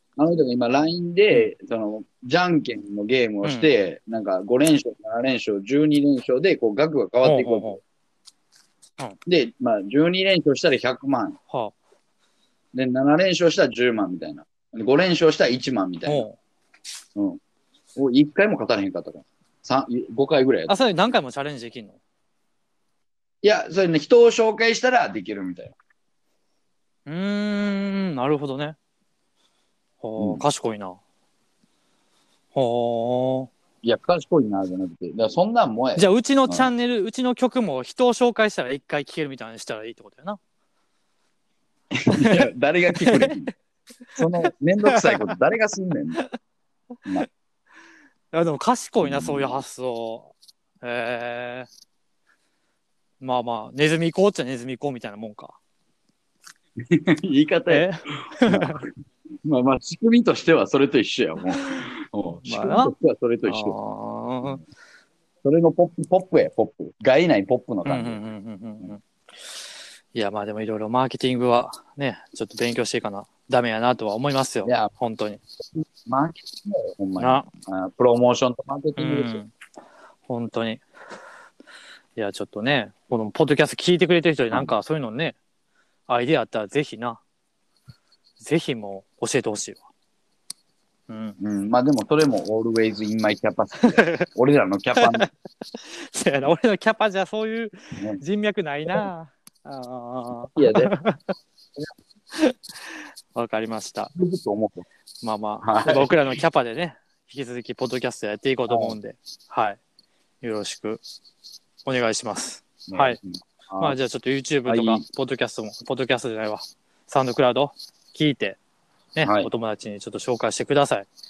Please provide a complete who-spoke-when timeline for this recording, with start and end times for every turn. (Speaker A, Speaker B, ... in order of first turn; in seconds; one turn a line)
Speaker A: 0.2-7.8
Speaker B: 3.4-3.7
Speaker B: 7.2-7.8
Speaker A: 9.2-11.4
Speaker A: 12.7-16.3
Speaker B: 16.1-16.4
Speaker A: 18.0-20.8
Speaker B: 20.7-22.0
Speaker A: 23.4-25.8
Speaker B: 27.1-28.8
Speaker B: 30.0-31.0
Speaker A: 30.2-30.4
Speaker B: 32.5-33.5
Speaker A: 33.8-36.7
Speaker B: 36.0-40.4
Speaker A: 41.9-43.5
Speaker B: 42.1-43.4
Speaker A: 44.2-46.2
Speaker B: 44.2-45.2
Speaker B: 48.3-51.7
Speaker A: 49.0-49.6
Speaker B: 53.2-55.6
Speaker A: 56.9-58.8
Speaker B: 57.7-58.8
Speaker A: 59.5-63.8
Speaker B: 62.5-62.9
Speaker B: 63.5-64.6
Speaker A: 65.4-68.2
Speaker B: 67.8-69.0
Speaker B: 70.1-75.4
Speaker A: 74.6-74.9
Speaker A: 75.8-79.4
Speaker B: 77.2-77.5
Speaker B: 79.0-79.5
Speaker B: 80.3-80.8
Speaker B: 82.2-85.4
Speaker B: 86.1-87.2
Speaker B: 88.4-89.8
Speaker B: 91.1-91.4
Speaker A: 91.4-95.3
Speaker B: 93.8-94.3
Speaker B: 95.0-95.2
Speaker B: 95.8-101.3
Speaker A: 98.0-98.2
Speaker A: 100.6-100.9
Speaker B: 102.3-104.1
Speaker A: 104.1-104.8
Speaker B: 105.2-109.8
Speaker A: 105.6-106.2
Speaker A: 108.7-109.0
Speaker B: 110.4-111.0
Speaker B: 111.8-113.2
Speaker A: 112.9-114.0
Speaker B: 113.8-118.6
Speaker A: 114.7-115.0
Speaker B: 119.1-121.1
Speaker A: 119.2-119.5